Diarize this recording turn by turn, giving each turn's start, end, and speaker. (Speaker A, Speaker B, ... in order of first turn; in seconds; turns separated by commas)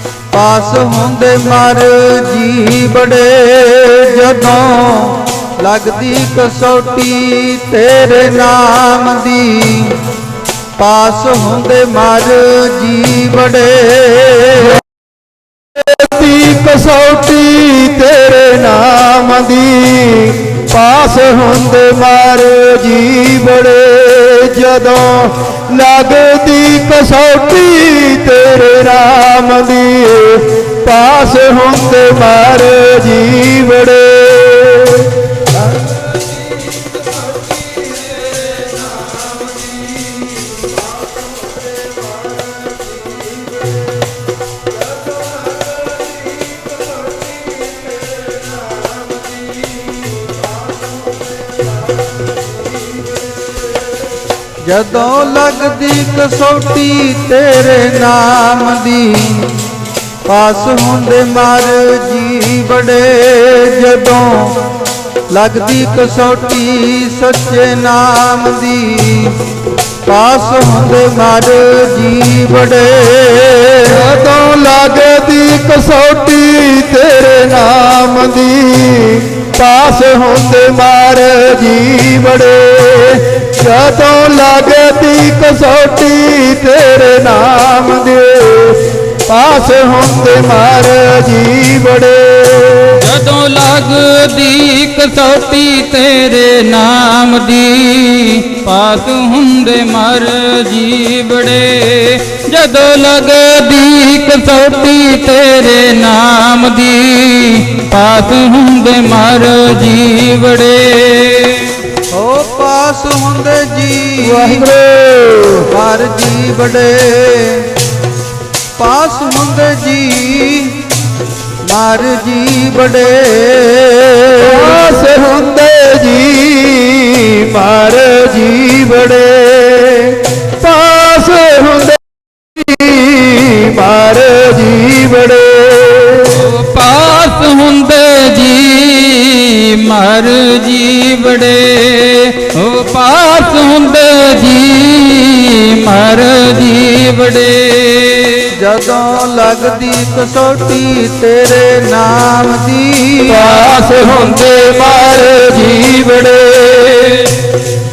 Speaker A: 0.3-10.0, Speaker A: 10.8-14.8, Speaker B: 15.7-35.1, Speaker A: 54.6-59.5, Speaker A: 60.2-64.6, Speaker A: 65.3-69.4, Speaker A: 70.0-74.0, Speaker B: 73.9-93.0, Speaker C: 93.0-111.7, Speaker A: 112.1-114.7, Speaker B: 114.2-115.7, Speaker A: 115.7-117.7, Speaker A: 118.8-120.8, Speaker A: 121.6-124.7, Speaker B: 124.4-136.4, Speaker C: 136.3-148.5, Speaker A: 148.5-153.4, Speaker B: 153.3-157.3